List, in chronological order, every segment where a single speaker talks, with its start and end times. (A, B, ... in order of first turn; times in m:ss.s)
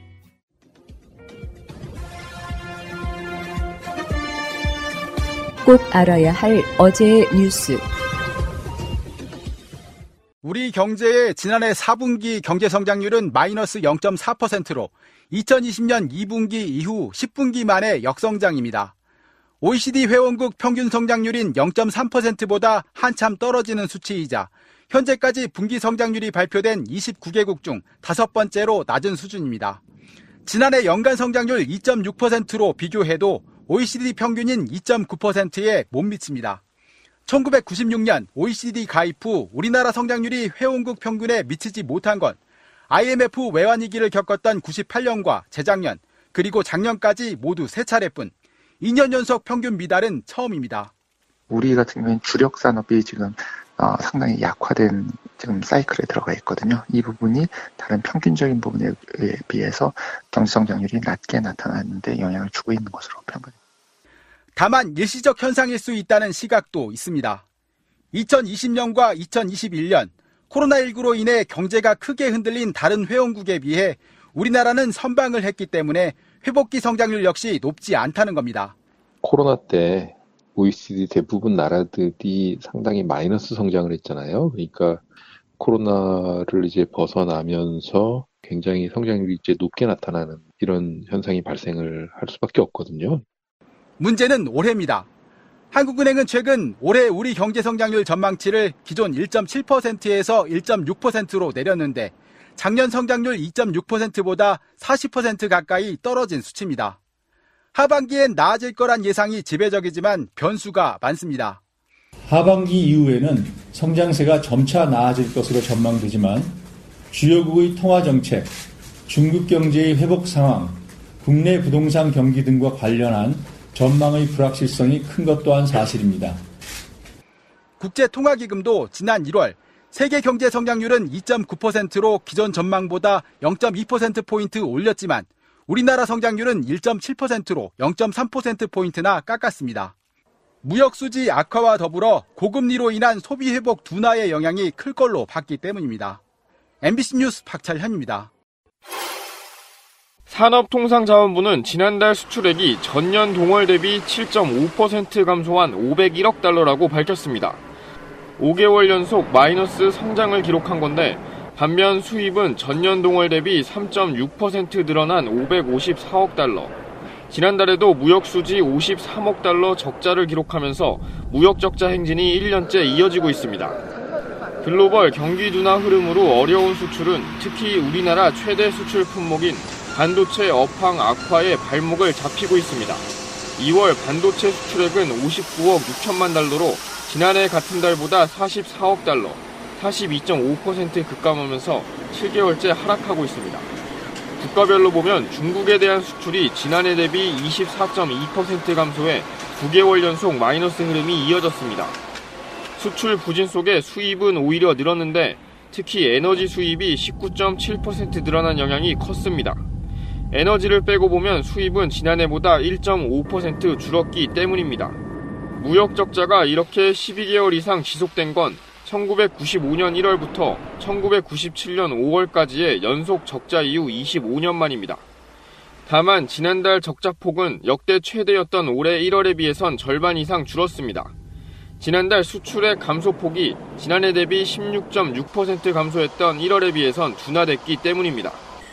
0:05.6-0:07.8 A
0:10.4-0:18.9 B
0:19.6-0:29.8 B
0:30.4-0:36.6 B
0:37.3-0:42.4 B
0:42.9-0:50.9 B
0:51.5-1:03.6 C
1:04.6-1:07.4 B
1:08.1-1:18.8 B
1:19.2-1:33.2 D
1:34.0-1:35.1 B
1:35.7-1:47.0 B
1:47.8-1:51.6 B
1:52.3-1:56.6 E
1:57.1-1:58.5 E
1:59.1-2:06.4 E
2:07.8-2:19.9 B
2:20.6-2:26.2 B
2:26.8-2:28.3 B
2:30.3-2:37.6 F
2:38.4-2:46.8 F
2:47.3-2:53.8 F
2:54.6-3:03.0 F
3:03.6-3:13.7 F
3:14.4-3:22.0 F
3:22.8-3:29.6 F
3:30.3-3:35.0 F
3:35.6-3:45.0 F
3:45.9-3:51.1 F
3:51.8-3:58.4 F